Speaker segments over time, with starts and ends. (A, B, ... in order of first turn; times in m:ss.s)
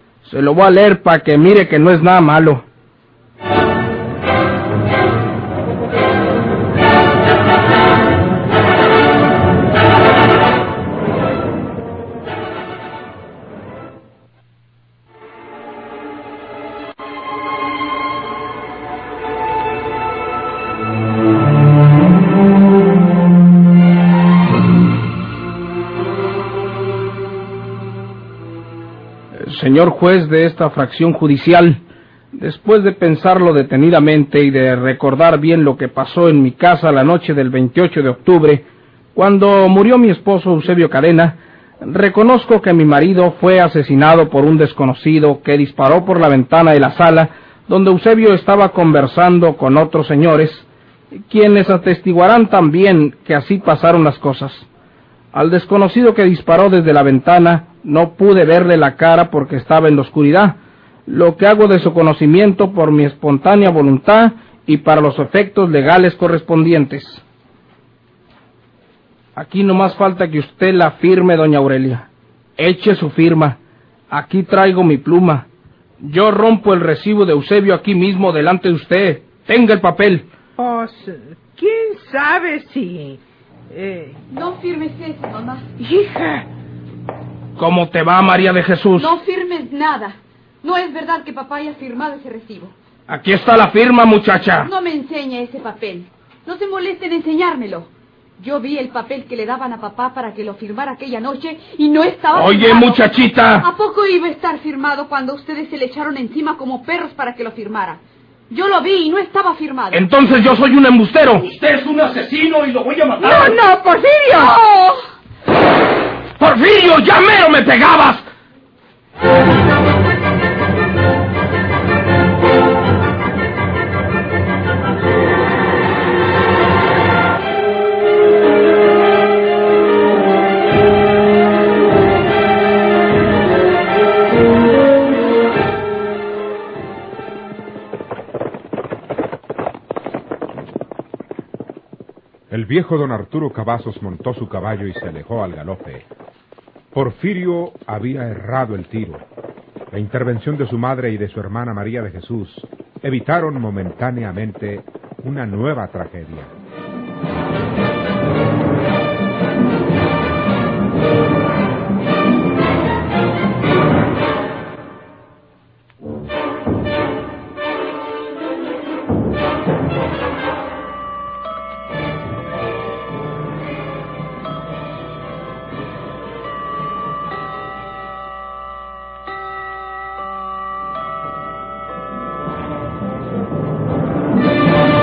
0:00.2-0:02.6 A
0:29.4-0:50.6 A
0:51.3-0:54.7 A
0:55.3-1:07.2 A
1:09.4-1:12.1 A
1:12.6-1:13.6 A
1:14.1-1:15.5 A
1:16.0-1:20.2 A
1:20.6-1:24.2 B
1:24.3-1:25.6 C
1:25.8-1:26.5 B
1:27.6-1:29.2 A
1:29.0-1:32.7 C
1:33.1-1:34.7 A
1:34.6-1:50.0 C
1:42.3-1:43.7 A
1:49.9-1:51.4 A
1:51.4-1:53.5 D
1:53.2-1:54.6 B
1:54.3-1:55.0 C
1:56.4-1:58.2 A
2:22.5-2:26.0 E
2:26.9-2:29.2 E
2:29.9-2:36.5 E